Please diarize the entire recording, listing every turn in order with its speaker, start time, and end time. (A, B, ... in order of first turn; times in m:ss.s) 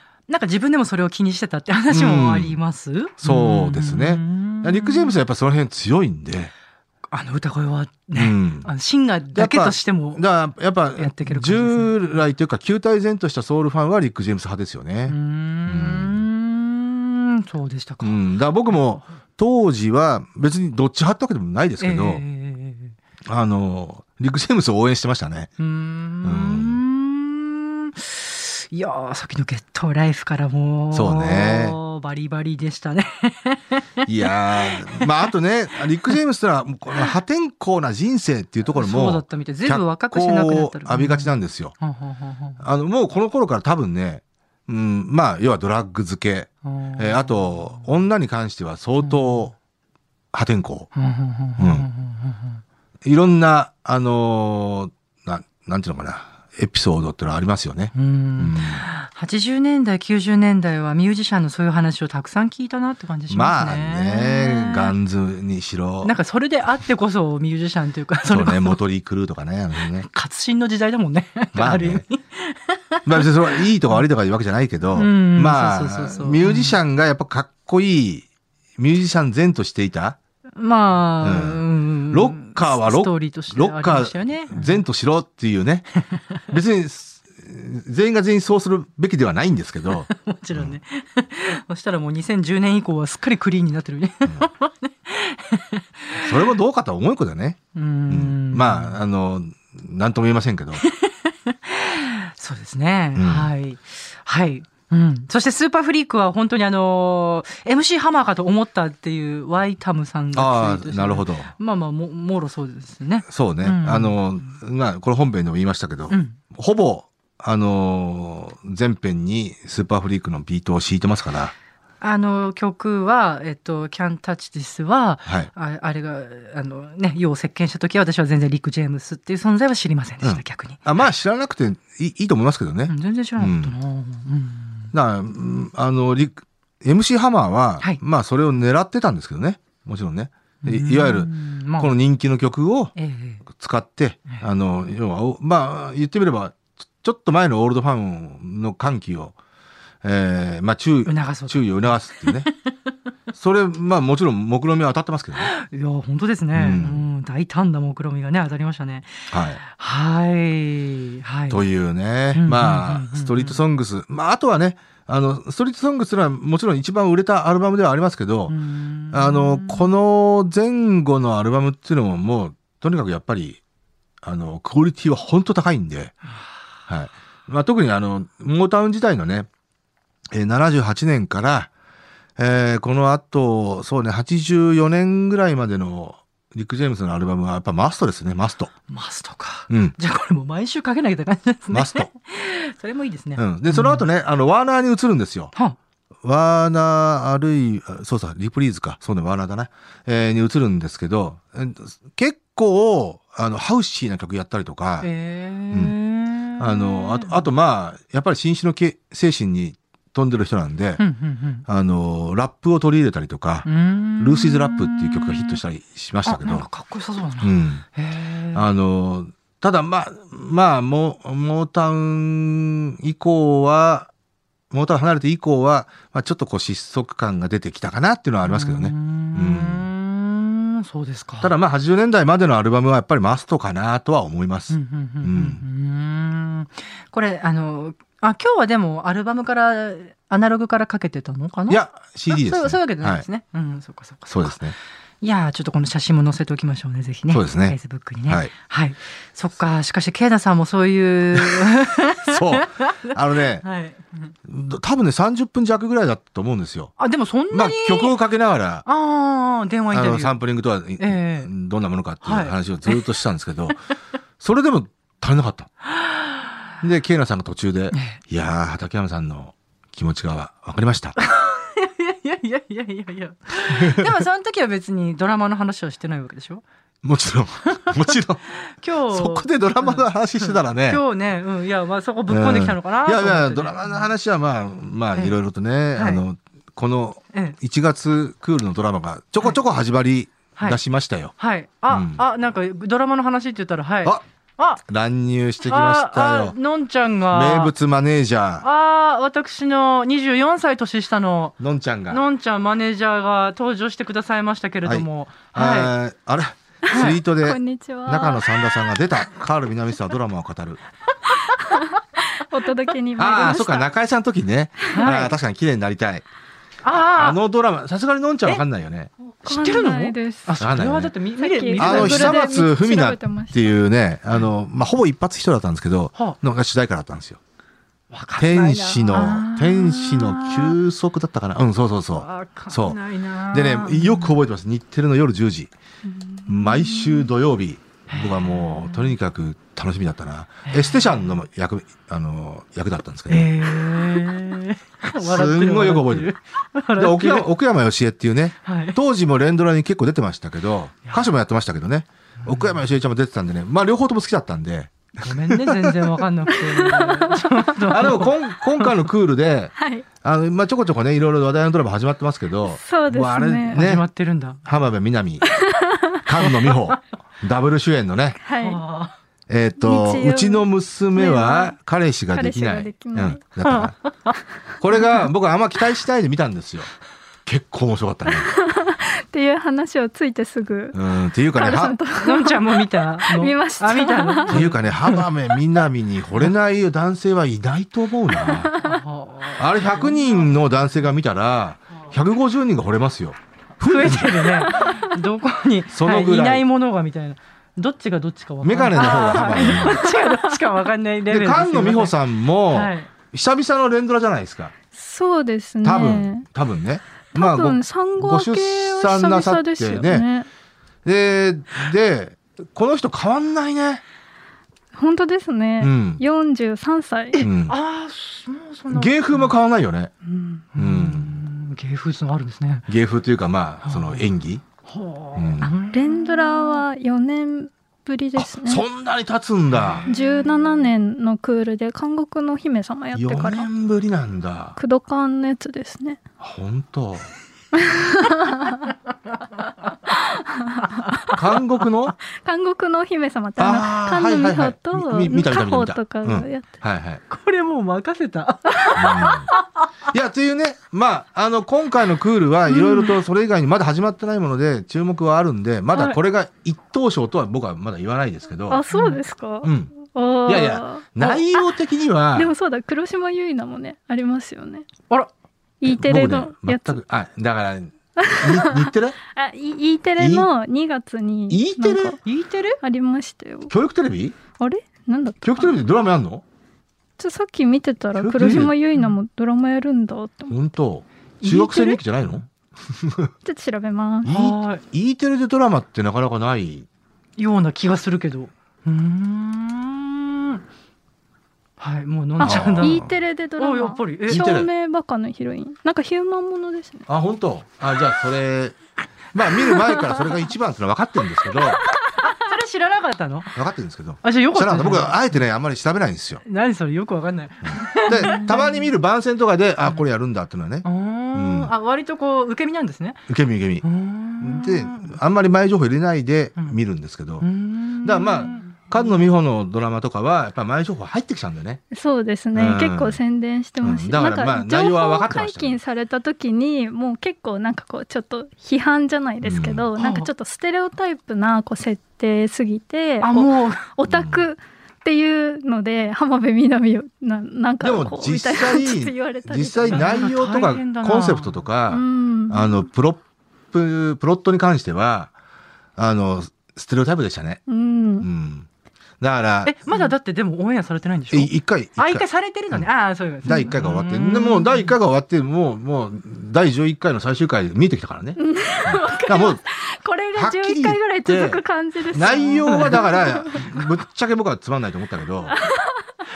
0:00.3-0:05.2 A
0:01.9-0:02.6 B
0:03.2-0:06.5 B
0:07.1-0:10.2 A
0:08.1-0:08.7 B
0:09.3-0:16.2 B
0:11.0-0:11.9 A
0:15.1-0:18.8 A
0:18.0-0:22.2 B
0:21.8-0:22.9 A
0:23.2-0:25.5 B
0:25.6-0:35.3 A
0:26.2-0:26.8 B
0:30.9-0:31.8 B
0:34.0-0:41.7 B
0:38.7-0:42.6 A
0:42.6-0:49.5 B
0:46.6-0:47.9 A
0:49.0-0:49.5 A
0:50.3-0:50.9 B
0:50.9-0:52.6 A
0:51.6-0:51.9 B
0:53.0-0:58.8 B
0:57.9-1:04.9 A
1:03.3-1:06.1 B
1:06.0-1:08.8 A
1:08.3-1:10.0 B
1:10.0-1:14.0 A
1:11.5-1:12.0 B
1:13.0-1:20.2 B
1:14.9-1:16.8 A
1:20.6-1:24.8 A
1:21.2-1:25.9 B
1:26.5-1:30.8 B
1:29.9-1:36.3 A
1:36.2-1:40.8 B
1:37.7-1:39.0 A
1:40.8-1:54.2 A
1:43.2-1:43.5 B
1:50.3-1:51.5 B
1:53.3-2:01.5 B
1:56.1-1:56.4 A
2:02.0-2:10.8 A
2:10.2-2:13.7 B
2:12.9-2:14.9 A
2:14.9-2:22.9 B
2:20.6-2:21.9 A
2:23.0-2:23.4 A
2:23.5-2:29.3 B
2:30.0-2:32.5 B
2:31.0-2:32.9 A
2:33.3-2:35.5 B
2:35.4-2:41.6 A
2:36.5-2:37.0 B
2:39.3-2:39.6 B
2:41.5-2:48.6 B
2:42.3-2:43.6 A
2:48.5-2:49.9 A
2:49.1-2:53.6 B
2:54.2-2:56.1 B
2:56.9-2:59.5 B
3:00.3-3:01.7 B
3:02.4-3:08.7 B
3:08.9-3:14.0 A
3:09.7-3:09.9 B
3:11.7-3:12.1 B
3:13.4-3:15.5 B
3:16.2-3:25.1 B
3:25.0-3:27.5 A
3:26.6-3:31.0 B
3:31.0-3:31.6 A
3:31.7-3:33.7 B
3:33.6-3:35.6 A
3:34.2-3:36.7 B
3:36.2-3:38.6 A
3:37.4-3:37.8 B
3:38.5-3:44.1 B
3:44.7-3:49.9 B
3:48.4-3:51.5 A
3:51.4-3:55.6 B
3:54.7-4:04.6 A
4:01.7-4:03.2 B
4:04.3-4:04.8 B
4:05.2-4:14.3 A
4:07.3-4:08.5 B
4:11.3-4:13.6 B
4:14.4-4:16.9 B
4:17.0-4:18.2 A
4:17.5-4:18.8 B
4:18.8-4:20.4 A
4:19.9-4:23.8 B
4:21.0-4:21.5 A
4:22.2-4:23.1 A
4:24.4-4:25.7 B
4:26.0-4:26.5 A
4:26.8-4:31.2 B
4:27.9-4:28.2 A
4:31.2-4:36.6 A
4:33.7-4:34.1 B
4:37.0-4:38.4 B
4:37.7-4:44.1 A
4:39.1-4:41.0 B
4:42.3-4:51.3 B
4:45.9-4:46.2 A
4:51.4-4:54.8 A
4:51.9-4:52.2 B
4:54.8-4:56.5 B
4:55.6-4:57.7 A
4:57.3-4:58.6 B
4:58.6-5:01.6 A
5:01.6-5:02.2 B
5:02.1-5:05.9 A
5:04.8-5:10.8 B
5:06.9-5:09.0 C
5:06.9-5:07.2 A
5:11.6-5:13.9 C
5:13.2-5:16.2 B
5:14.9-5:15.3 A
5:16.8-5:17.4 A
5:17.1-5:19.1 B
5:19.4-5:20.5 C
5:19.4-5:22.5 A
5:20.6-5:21.1 B
5:21.4-5:23.7 C
5:21.8-5:27.4 B
5:28.1-5:30.8 A
5:28.4-5:35.7 B
5:32.1-5:34.3 A
5:36.3-5:37.3 C
5:36.5-5:43.7 B
5:38.1-5:39.1 A
5:40.7-5:41.4 A
5:43.3-5:47.5 A
5:45.2-5:46.3 B
5:47.0-5:56.6 B
5:48.6-5:49.0 A
5:52.4-5:52.7 A
5:55.2-5:59.0 A
5:57.1-5:57.4 C
5:57.8-6:04.0 B
5:59.8-6:00.0 C
6:02.7-6:03.9 C
6:03.7-6:04.6 A
6:04.6-6:05.5 B
6:05.5-6:06.2 C
6:06.2-6:08.4 B
6:08.4-6:08.8 C
6:08.6-6:09.1 A
6:09.5-6:13.9 B
6:09.8-6:11.7 C
6:12.3-6:13.4 C
6:13.6-6:14.4 A
6:14.8-6:16.9 B
6:17.4-6:18.5 B
6:18.4-6:21.0 C
6:20.9-6:22.0 B
6:21.5-6:24.6 C
6:22.1-6:25.2 A
6:24.5-6:28.8 B
6:28.4-6:29.0 C
6:28.7-6:30.4 A
6:29.6-6:34.8 B
6:33.8-6:42.1 A
6:35.9-6:36.6 B
6:38.6-6:40.1 B
6:39.2-6:40.4 C
6:41.3-6:44.7 B
6:42.7-6:43.1 A
6:44.9-6:46.4 C
6:45.8-6:50.3 B
6:47.3-6:50.5 C
6:51.0-6:54.0 B
6:55.0-6:57.4 C
6:55.8-6:56.2 B
6:57.3-6:59.5 A
6:57.4-6:57.8 B
6:58.9-7:00.1 B
7:00.3-7:02.9 A
7:00.7-7:01.4 B
7:02.9-7:04.6 B
7:03.8-7:04.3 A
7:04.8-7:06.8 A
7:05.4-7:05.7 B
7:05.9-7:08.8 C
7:08.4-7:10.0 B
7:09.7-7:10.8 A
7:10.1-7:13.7 C
7:13.1-7:14.8 B
7:14.8-7:16.2 C
7:16.4-7:17.3 B
7:17.9-7:18.8 C
7:20.3-7:21.3 C
7:21.3-7:22.2 B
7:22.3-7:26.8 C
7:23.6-7:27.2 B
7:27.3-7:29.9 A
7:28.9-7:29.5 B
7:30.1-7:38.8 B
7:38.7-7:41.6 C
7:38.9-7:39.2 A
7:39.6-7:39.9 B
7:40.4-7:42.5 B
7:42.3-7:44.9 C
7:45.8-7:47.0 C
7:45.8-7:49.2 B
7:48.2-7:52.2 C
7:50.2-7:50.5 B
7:51.5-7:52.2 B
7:52.2-7:52.8 A
7:52.8-7:53.7 C
7:53.7-7:54.4 B
7:54.6-7:55.8 C
7:55.4-7:56.4 B
7:57.2-8:00.6 C
7:58.2-7:58.7 B
8:00.5-8:03.3 B
8:01.4-8:02.4 A
8:03.4-8:04.3 C
8:04.2-8:06.9 B
8:04.3-8:04.8 A
8:07.4-8:10.6 A
8:11.8-8:13.0 A
8:12.4-8:17.1 C
8:12.4-8:13.2 B
8:13.6-8:14.5 A
8:14.3-8:14.7 B
8:17.1-8:18.8 B
8:19.3-8:21.8 B
8:19.9-8:20.1 A
8:21.8-8:23.6 A
8:23.5-8:26.4 B
8:24.2-8:25.2 A
8:26.4-8:28.9 A
8:27.6-8:31.7 B
8:30.8-8:33.2 A
8:33.3-8:33.8 B
8:33.8-8:35.2 A
8:34.4-8:37.5 B
8:37.4-8:39.0 A
8:38.0-8:41.8 B
8:41.9-9:00.3 C
8:42.5-8:43.2 B
8:43.8-8:45.8 B
8:49.4-8:49.9 B
8:50.0-8:50.3 A
8:53.2-8:53.9 A
8:54.1-8:54.4 B
8:57.8-9:05.3 B
8:59.9-9:01.6 A
9:01.9-9:02.9 C
9:06.0-9:07.6 B
9:07.7-9:08.3 C
9:08.2-9:08.7 B
9:09.2-9:10.1 B
9:09.6-9:14.9 A
9:11.3-9:12.9 B
9:13.4-9:19.6 B
9:18.4-9:23.9 C
9:20.3-9:25.6 B
9:25.5-9:26.0 C